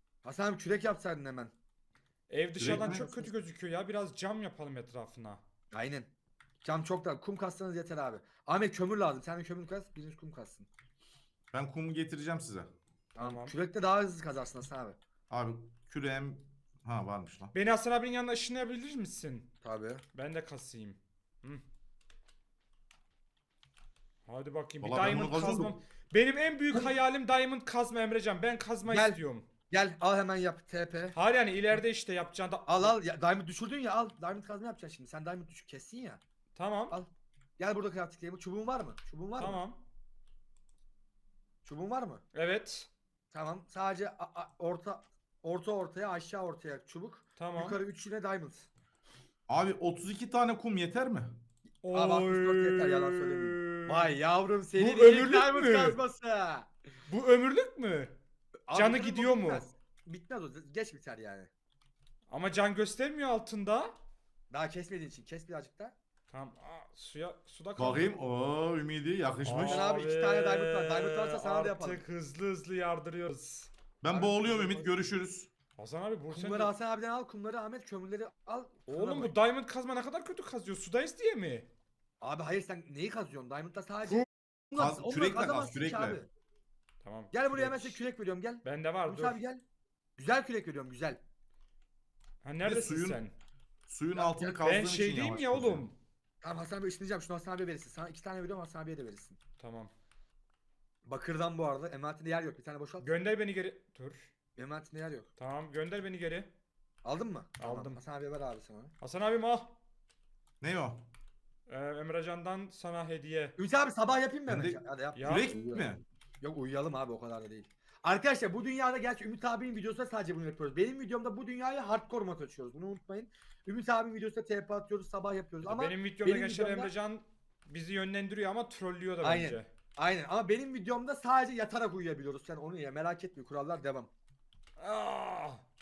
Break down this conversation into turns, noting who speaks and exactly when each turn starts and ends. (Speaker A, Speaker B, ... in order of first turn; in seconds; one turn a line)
Speaker A: 0.2-1.5
Speaker B: 2.3-5.4
Speaker C: 2.6-3.0
Speaker A: 2.8-3.3
Speaker A: 5.7-6.1
Speaker A: 6.6-10.7
Speaker C: 11.5-12.7
Speaker A: 13.1-15.0
Speaker B: 13.2-13.5
Speaker C: 15.3-17.5
Speaker B: 17.5-19.5
Speaker A: 19.6-20.0
Speaker B: 20.1-21.6
Speaker B: 24.2-29.5
Speaker C: 24.8-25.8
Speaker A: 28.9-29.2
Speaker A: 29.7-31.2
Speaker B: 31.1-32.9
Speaker A: 32.6-36.2
Speaker B: 36.5-37.0
Speaker A: 36.9-39.6
Speaker B: 39.4-39.8
Speaker A: 41.6-42.2
Speaker B: 42.3-42.9
Speaker A: 43.3-48.7
Speaker B: 47.4-47.8
Speaker C: 49.5-51.4
Speaker B: 51.8-54.1
Speaker A: 51.9-56.7
Speaker B: 54.8-56.0
Speaker B: 57.1-58.1
Speaker A: 58.7-61.5
Speaker B: 58.7-59.6
Speaker B: 62.3-64.0
Speaker A: 64.5-65.9
Speaker B: 66.3-68.1
Speaker C: 67.8-69.8
Speaker B: 69.4-74.8
Speaker A: 69.6-72.0
Speaker C: 74.0-75.5
Speaker A: 74.1-74.6
Speaker B: 75.8-76.7
Speaker A: 76.3-79.3
Speaker B: 78.9-81.7
Speaker A: 82.2-86.3
Speaker C: 84.7-86.2
Speaker B: 87.0-88.0
Speaker A: 87.3-89.6
Speaker B: 88.6-89.4
Speaker A: 90.2-91.2
Speaker B: 92.4-93.3
Speaker C: 92.6-93.2
Speaker C: 93.9-95.8
Speaker A: 94.1-94.6
Speaker B: 94.6-96.0
Speaker A: 96.4-99.4
Speaker B: 99.6-99.9
Speaker A: 101.0-103.1
Speaker B: 103.0-104.3
Speaker A: 104.5-105.3
Speaker B: 105.4-106.5
Speaker A: 107.0-108.9
Speaker B: 107.6-108.0
Speaker B: 109.0-109.8
Speaker C: 110.6-111.1
Speaker B: 111.7-113.5
Speaker A: 113.6-115.9
Speaker C: 114.5-116.0
Speaker B: 115.1-115.5
Speaker A: 116.4-126.9
Speaker B: 125.6-129.7
Speaker A: 129.2-134.1
Speaker B: 134.8-135.6